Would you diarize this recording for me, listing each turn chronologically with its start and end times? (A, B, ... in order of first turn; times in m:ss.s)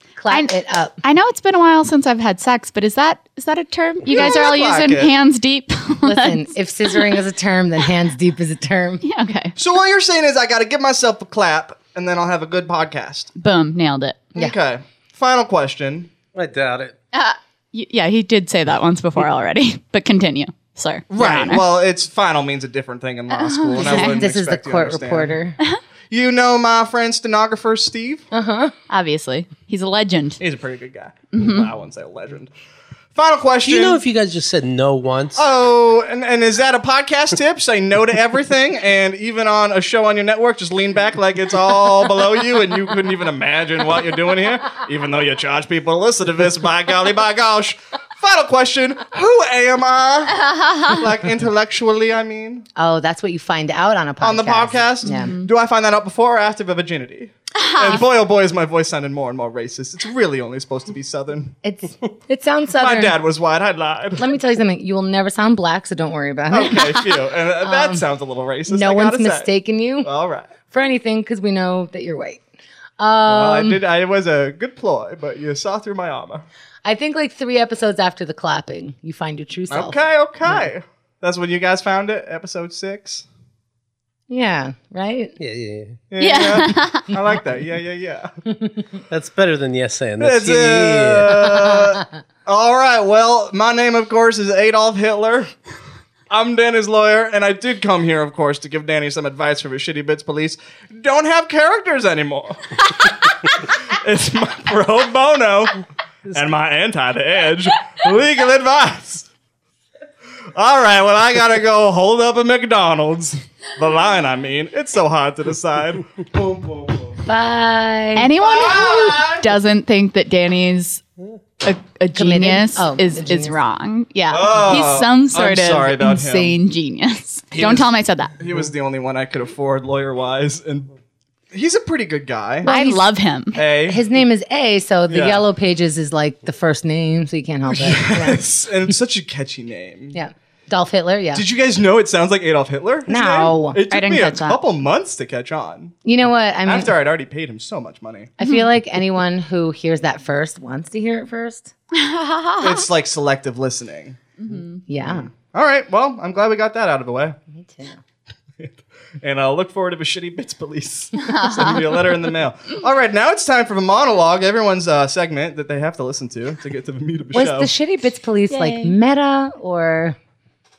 0:00.2-0:01.0 A
0:00.3-0:07.2 B
0:04.1-0:05.1 C
0:06.0-0:09.0 A
0:09.0-0:09.6 B
0:09.6-0:13.3 C
0:13.4-0:14.2 B
0:14.4-0:16.1 C
0:16.3-0:17.0 D
0:17.1-0:21.6 B
0:21.1-0:25.4 C
0:23.6-0:24.2 B
0:23.7-0:25.6 A
0:26.1-0:28.3 C
0:28.3-0:28.7 A
0:28.9-0:30.4 B
0:30.4-0:32.5 C
0:31.3-0:31.7 B
0:33.2-0:34.0 C
0:33.6-0:35.4 D
0:35.4-0:52.7 C
0:52.8-0:55.3 A
0:54.2-1:01.6 C
0:55.1-0:55.5 B
0:57.6-0:58.0 B
1:01.6-1:03.2 A
1:02.8-1:04.4 C
1:04.2-1:07.1 A
1:06.5-1:09.5 C
1:07.6-1:08.0 A
1:08.7-1:10.1 A
1:10.0-1:10.5 C
1:10.7-1:12.4 A
1:13.0-1:13.8 A
1:13.3-1:16.4 C
1:16.8-1:20.0 A
1:19.7-1:23.3 C
1:24.3-1:25.4 A
1:25.4-1:26.0 D
1:26.1-1:28.3 C
1:26.2-1:27.1 B
1:29.1-1:31.5 D
1:30.2-1:35.5 C
1:36.3-1:49.3 C
1:50.5-1:57.2 C
1:57.3-1:58.3 A
1:58.2-2:01.0 B
1:58.4-1:59.6 C
2:01.6-2:08.3 B
2:02.2-2:03.6 A
2:04.3-2:06.6 C
2:07.6-2:10.9 C
2:11.5-2:12.7 C
2:12.6-2:13.1 A
2:12.6-2:13.6 B
2:13.5-2:14.0 C
2:13.9-2:18.4 A
2:15.1-2:15.4 C
2:17.7-2:20.2 C
2:20.1-2:21.4 A
2:21.3-2:26.0 C
2:23.1-2:23.8 A
2:23.9-2:24.6 B
2:26.0-2:26.9 A
2:26.6-2:28.3 C
2:28.4-2:31.7 A
2:28.4-2:28.7 B
2:31.9-2:32.8 B
2:32.6-2:34.2 C
2:34.4-2:34.8 B
2:34.9-2:35.3 A
2:35.0-2:37.4 C
2:37.5-2:38.0 A
2:38.6-2:47.7 C
2:41.2-2:42.1 B
2:47.3-2:50.2 A
2:48.5-2:49.0 B